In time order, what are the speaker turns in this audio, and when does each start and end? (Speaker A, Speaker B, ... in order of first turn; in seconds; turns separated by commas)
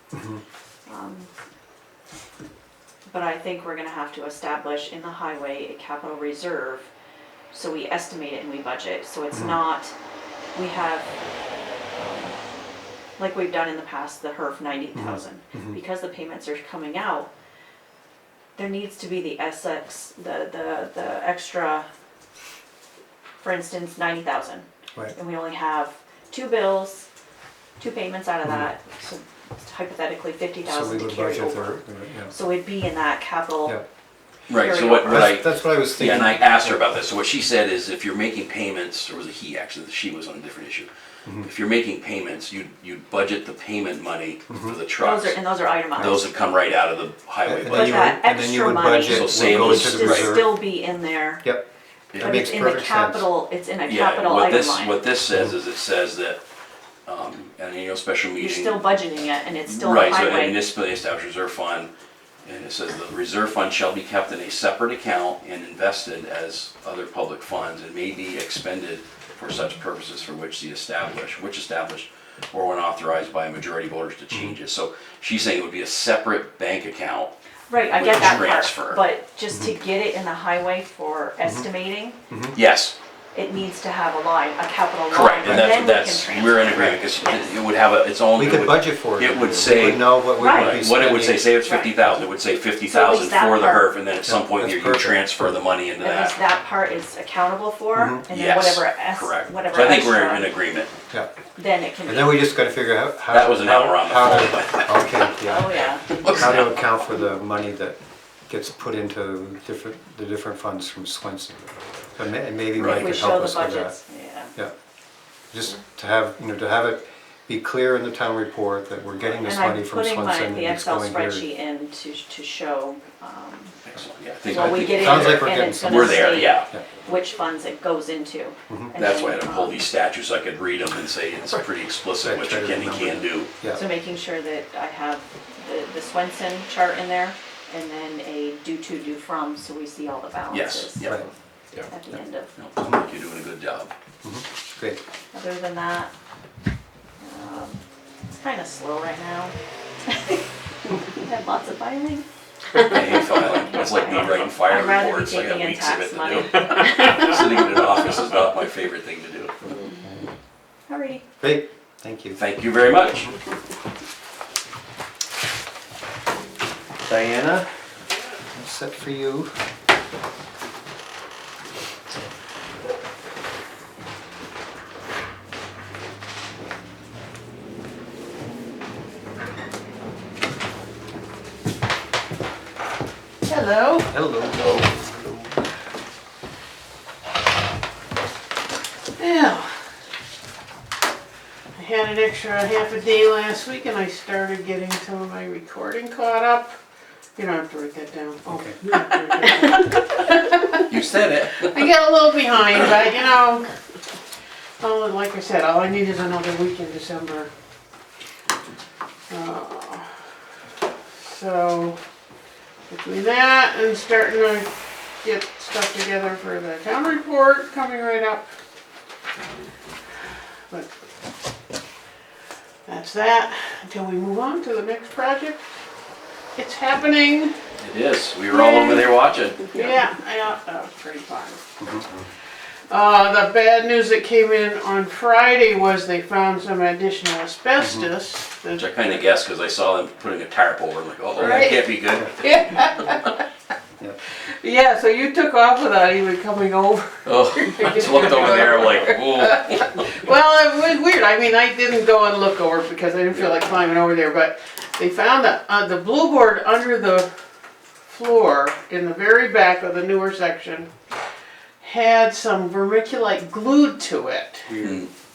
Speaker A: 0.1-0.4, Speaker B: 0.9-1.3, Speaker B: 3.1-6.9, Speaker B: 7.5-9.9, Speaker A: 9.3-9.6, Speaker B: 10.5-11.1, Speaker B: 11.9-12.3, Speaker B: 13.2-17.3, Speaker A: 14.9-15.8, Speaker B: 18.6-21.9, Speaker B: 23.4-27.1, Speaker B: 27.8-31.8, Speaker A: 30.6-32.3, Speaker B: 32.3-33.8, Speaker C: 34.5-40.9, Speaker B: 34.5-35.2, Speaker A: 34.8-36.9, Speaker C: 41.4-45.4, Speaker A: 44.5-44.8, Speaker B: 45.0-46.3, Speaker C: 45.9-48.1, Speaker A: 47.4-50.7, Speaker B: 47.7-51.5, Speaker C: 49.0-50.4, Speaker C: 52.1-52.5, Speaker A: 52.2-53.3, Speaker B: 52.2-55.0, Speaker C: 53.9-56.4, Speaker C: 57.0-58.8, Speaker B: 58.4-60.6, Speaker C: 59.7-61.9, Speaker C: 62.4-77.3, Speaker A: 74.3-74.6, Speaker B: 77.7-82.2, Speaker C: 77.9-79.0, Speaker A: 82.3-82.6, Speaker C: 82.5-82.9, Speaker B: 83.3-87.6, Speaker C: 85.1-96.4, Speaker A: 85.4-85.7, Speaker A: 88.3-91.5, Speaker B: 90.4-90.9, Speaker B: 91.6-91.9, Speaker B: 92.9-93.8, Speaker A: 94.2-95.6, Speaker B: 96.0-100.5, Speaker A: 97.9-98.2, Speaker C: 98.3-100.9, Speaker B: 101.6-102.5, Speaker A: 102.0-114.0, Speaker C: 103.3-105.2, Speaker B: 105.4-106.2, Speaker C: 106.2-106.9, Speaker C: 112.7-113.1, Speaker B: 112.8-114.5, Speaker A: 115.5-121.5, Speaker B: 119.4-123.8, Speaker C: 123.8-126.7, Speaker B: 124.5-129.8, Speaker A: 124.9-126.8, Speaker C: 128.9-133.5, Speaker A: 132.2-133.8, Speaker B: 133.7-141.2, Speaker C: 140.5-141.9, Speaker B: 141.9-142.5, Speaker C: 142.6-143.9, Speaker A: 144.2-145.0, Speaker B: 145.3-146.1, Speaker B: 147.2-147.8, Speaker B: 148.4-149.5, Speaker B: 150.1-157.4, Speaker C: 152.8-159.5, Speaker B: 160.9-161.2, Speaker A: 161.4-162.4, Speaker C: 162.3-163.3, Speaker A: 167.0-167.7, Speaker A: 168.5-169.5, Speaker D: 183.4-184.1, Speaker A: 184.1-185.4, Speaker D: 189.2-189.7, Speaker D: 191.7-196.7, Speaker D: 197.3-200.8, Speaker A: 198.5-198.8, Speaker C: 200.8-201.9, Speaker D: 201.6-203.7, Speaker D: 204.8-207.5, Speaker D: 209.3-210.1, Speaker D: 211.2-212.0, Speaker D: 212.9-214.7, Speaker D: 215.2-218.5, Speaker D: 222.8-225.6, Speaker D: 226.6-227.5, Speaker C: 227.8-229.9, Speaker D: 228.5-229.1, Speaker D: 229.7-231.6, Speaker D: 232.9-239.2, Speaker A: 237.8-238.1, Speaker C: 238.7-242.3, Speaker D: 241.4-243.4, Speaker A: 241.4-242.3, Speaker D: 244.4-257.3, Speaker C: 247.2-250.1, Speaker D: 258.1-260.9, Speaker D: 261.8-264.8, Speaker C: 264.8-265.1